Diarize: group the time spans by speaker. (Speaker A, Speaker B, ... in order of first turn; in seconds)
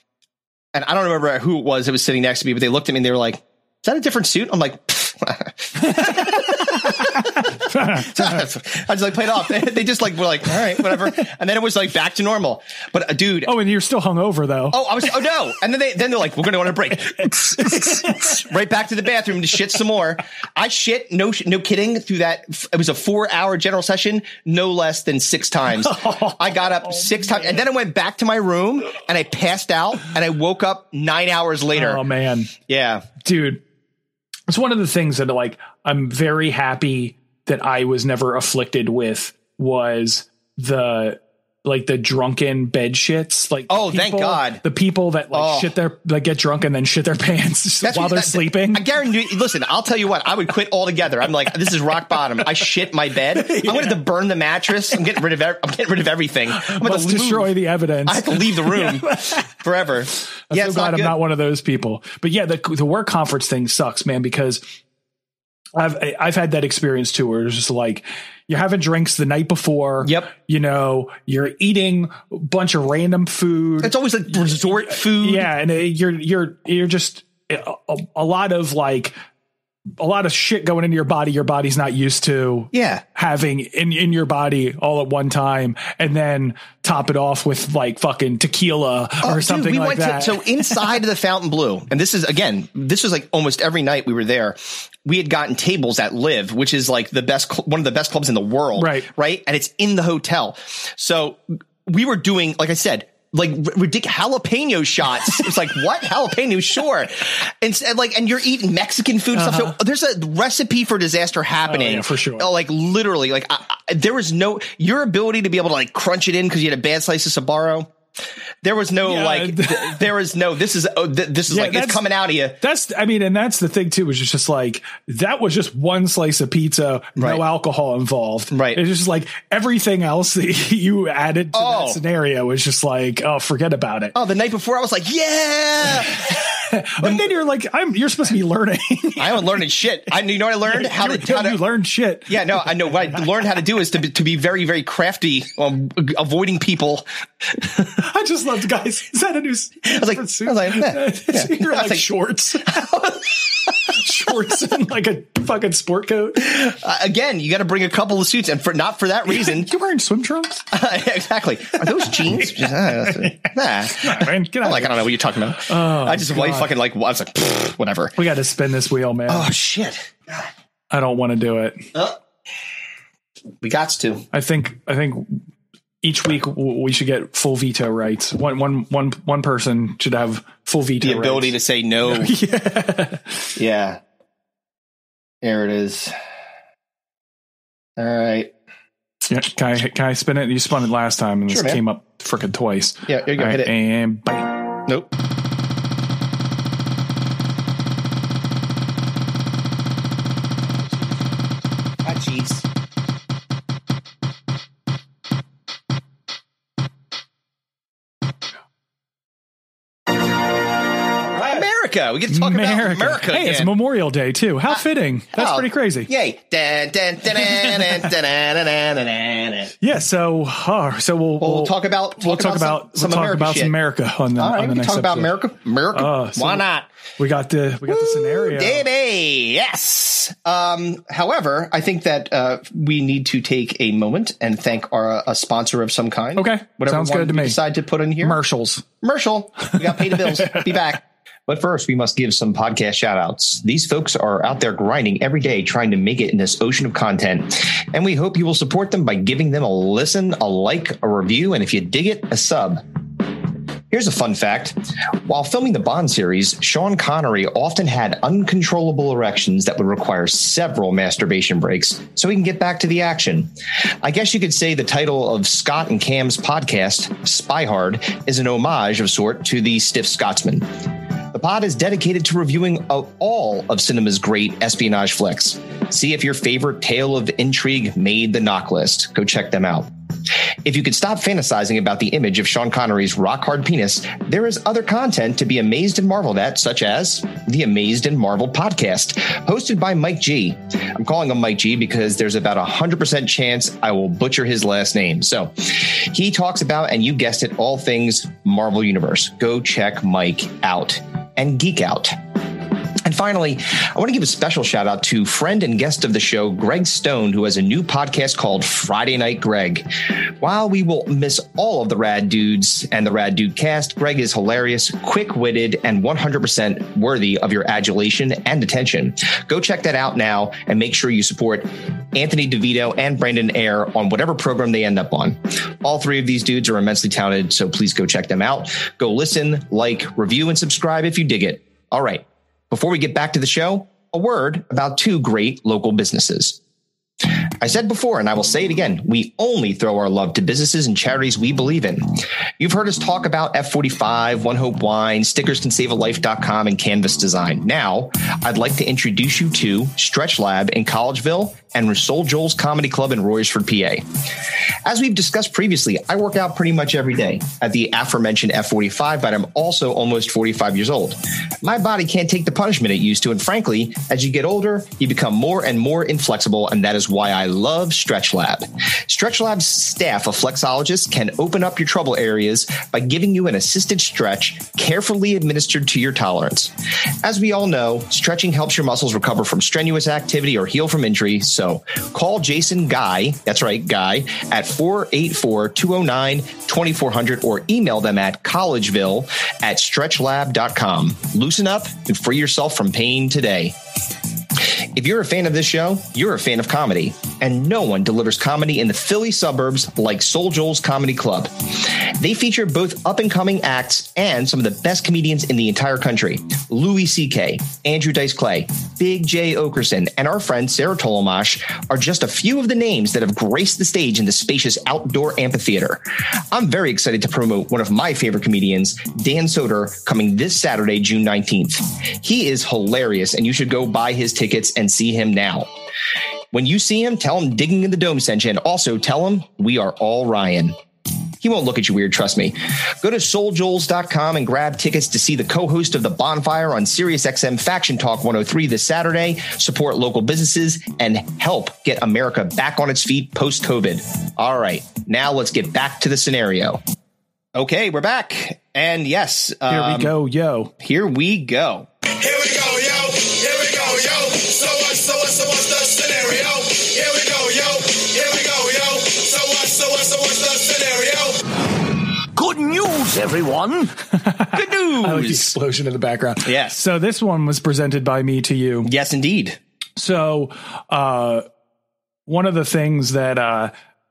Speaker A: 0.7-13.5, 14.7-32.0, 32.7-33.1, 43.7-44.6, 45.3-45.7, 47.8-61.2, 70.0-70.3, 73.8-75.5, 82.7-83.0, 89.2-117.9, 118.6-122.6, 127.2-127.4, 128.5-128.8, 131.5-132.0, 134.1-136.3, 137.0-137.3, 139.2-141.6, 142.3-147.1, 149.8-152.1, 152.7-153.1, 156.4-159.7, 160.7-168.1, 169.3-170.5, 173.6-174.2, 181.0-182.3, 183.6-184.0, 185.4-186.1, 188.0-188.5, 191.5-191.8, 193.1-193.7, 202.0-202.7, 211.3-213.7, 215.3-219.7, 221.4-223.7, 224.3-226.9, 227.8-238.4, 239.0-252.8, 253.9-270.7, 271.3-279.9, 280.6-302.2, 303.0-309.9, 310.4-336.6, 337.6-354.1, 354.8-393.8, 394.6-425.7, 426.5-430.8, 431.4-446.8, 447.5-450.1, 450.8-451.9, 464.5-465.5, 466.4-466.8, 468.8-469.6
Speaker B: 5.9-8.4, 13.4-14.8, 17.2-18.4, 25.7-27.6, 31.7-32.5, 33.2-33.6, 34.5-48.8, 53.4-54.0, 56.6-59.4, 60.5-64.6, 65.8-73.9, 74.8-79.1, 80.0-90.8, 98.8-99.1, 109.3-109.8, 111.7-112.5, 119.0-120.0, 121.5-122.0, 122.6-134.1, 136.3-139.5, 140.6-143.2, 147.9-156.6, 159.3-160.7, 162.1-165.0, 165.7-166.7, 168.2-169.5, 170.9-171.8, 174.3-175.4, 176.0-183.3, 189.3-194.7, 212.3-216.1, 219.8-225.3, 225.9-226.6, 227.2-228.8, 236.3-237.6, 238.2-238.8, 240.1-240.7, 449.7-450.7, 464.1-468.9, 470.0-471.4, 472.2-473.7
Speaker C: 452.2-461.4